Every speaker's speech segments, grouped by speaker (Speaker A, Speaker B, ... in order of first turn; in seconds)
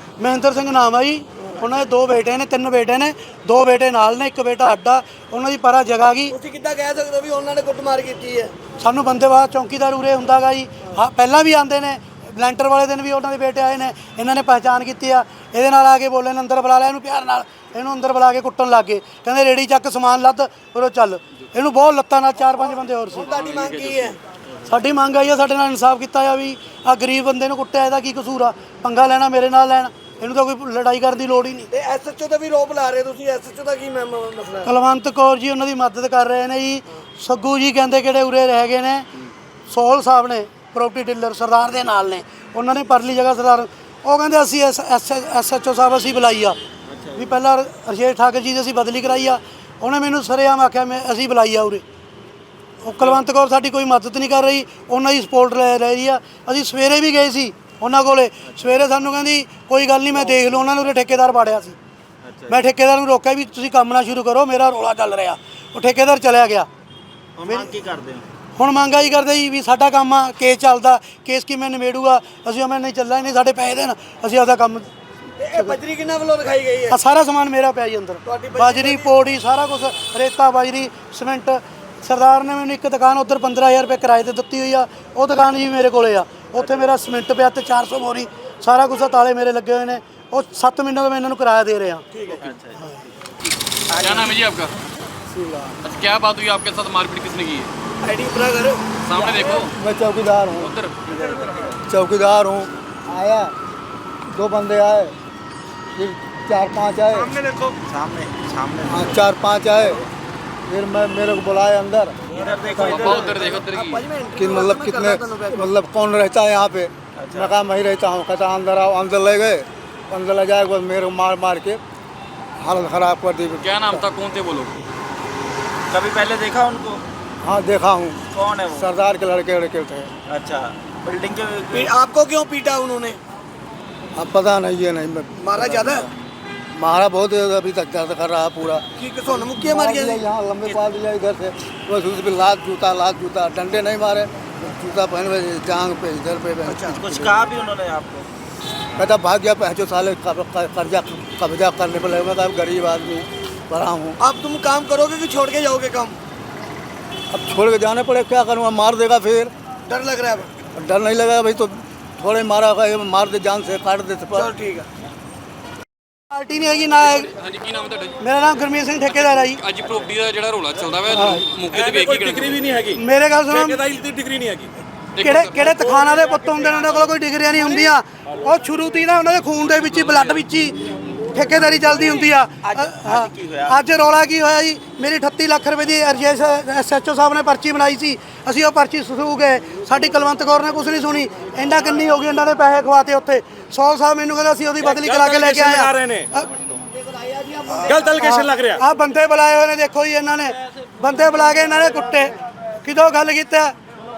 Speaker A: 0.2-6.3, 8.8-23.4, 24.6-31.7, 34.6-39.0, 39.7-46.6, 47.1-51.8, 52.8-61.8, 62.5-66.7, 67.4-67.8, 68.5-74.9, 75.5-75.8, 76.9-92.2, 92.8-93.0, 166.3-167.3, 168.2-169.6, 171.1-171.5, 172.9-173.8, 175.2-180.8, 181.3-196.5, 197.7-203.7
Speaker B: 6.3-8.5, 23.1-24.2, 31.7-34.7, 75.4-77.0, 78.2-79.1, 98.0-98.8, 107.3-107.7, 113.7-115.7, 131.7-133.2, 135.4-136.1, 139.0-140.2, 146.7-147.0, 154.2-156.2, 159.9-160.5, 164.3-164.9
Speaker C: 23.2-24.2, 93.9-94.8, 95.8-97.7, 99.0-99.7, 100.5-101.0, 112.8-114.1, 123.6-124.8, 167.0-168.2, 169.0-172.7, 175.1-176.1, 180.0-180.4
Speaker D: 46.9-47.4, 58.4-58.8, 62.2-62.6, 67.4-68.3, 92.4-92.8, 107.9-109.2, 112.4-113.3, 117.2-117.5, 125.9-127.0, 128.3-128.9, 130.3-131.9, 147.0-148.2, 182.6-183.7
Speaker E: 95.3-95.8, 99.2-100.7, 101.9-103.5, 104.3-105.1, 106.0-107.3, 108.8-110.0, 110.7-113.2, 114.3-121.8, 122.6-124.0, 127.4-130.1, 134.2-136.0, 136.8-147.5, 149.0-154.2, 157.3-159.5, 160.8-164.5
Speaker F: 171.7-174.7, 194.8-196.3, 197.8-198.8